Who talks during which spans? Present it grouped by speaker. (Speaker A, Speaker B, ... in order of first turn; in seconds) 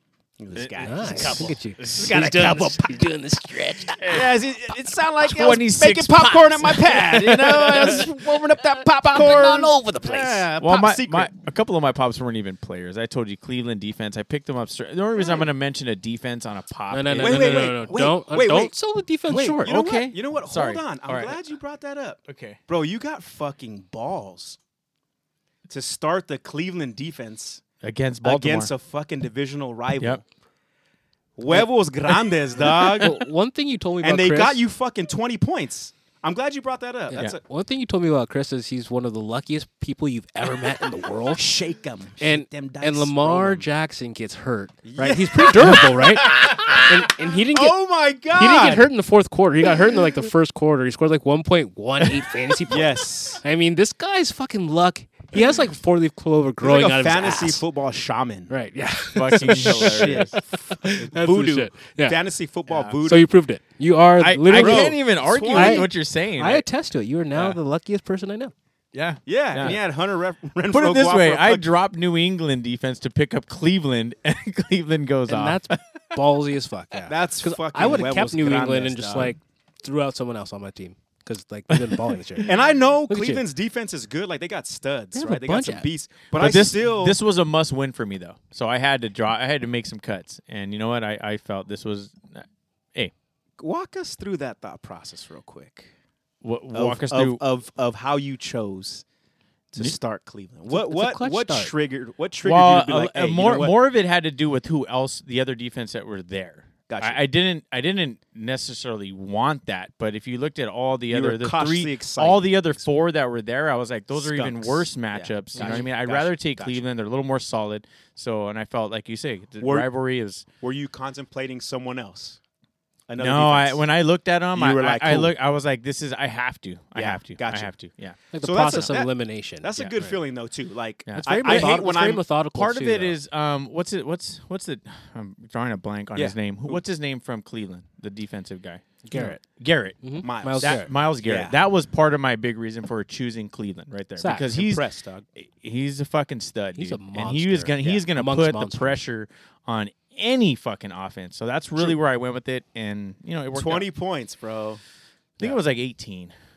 Speaker A: 0.4-3.0, 3.9-11.3, 17.2-18.7, 19.3-24.6, 25.7-27.6, 28.2-30.2, 31.4-33.2, 34.0-37.4, 41.3-43.7, 44.8-48.9, 52.7-53.4, 56.6-58.5, 59.4-63.3, 64.5-65.9, 69.3-71.7, 77.1-79.4, 82.4-87.2, 93.6-95.9, 96.7-99.0, 99.7-103.8, 106.9-107.2, 111.1-112.9, 114.1-116.8, 119.6-119.9, 120.6-122.4, 123.1-123.8, 124.5-125.3, 127.0-127.7, 128.4-132.2, 136.2-136.8, 140.2-141.6, 144.5-145.3, 153.5-154.8
Speaker B: 0.6-2.2, 4.0-4.4, 5.2-8.1, 10.6-17.8, 19.7-21.4, 22.3-22.6, 27.8-28.7, 59.1-60.9, 62.7-63.0, 64.2-66.6, 67.3-67.6, 68.9-69.8, 70.7-75.8, 86.3-93.1, 96.4-97.4, 102.4-120.5, 123.2-128.2, 131.1-131.8, 132.5-153.9, 155.4-156.3
Speaker C: 0.8-4.2, 7.3-8.0, 8.8-10.5, 16.9-19.7, 32.6-34.6, 37.1-41.4, 42.2-47.8, 48.3-57.6, 58.5-62.2, 63.0-68.5, 75.3-82.5, 83.1-83.4, 85.1-85.9, 100.7-101.7, 115.6-115.8, 128.3-130.1, 131.2-133.2, 139.1-139.4, 140.0-140.9, 144.2-144.5, 146.8-149.0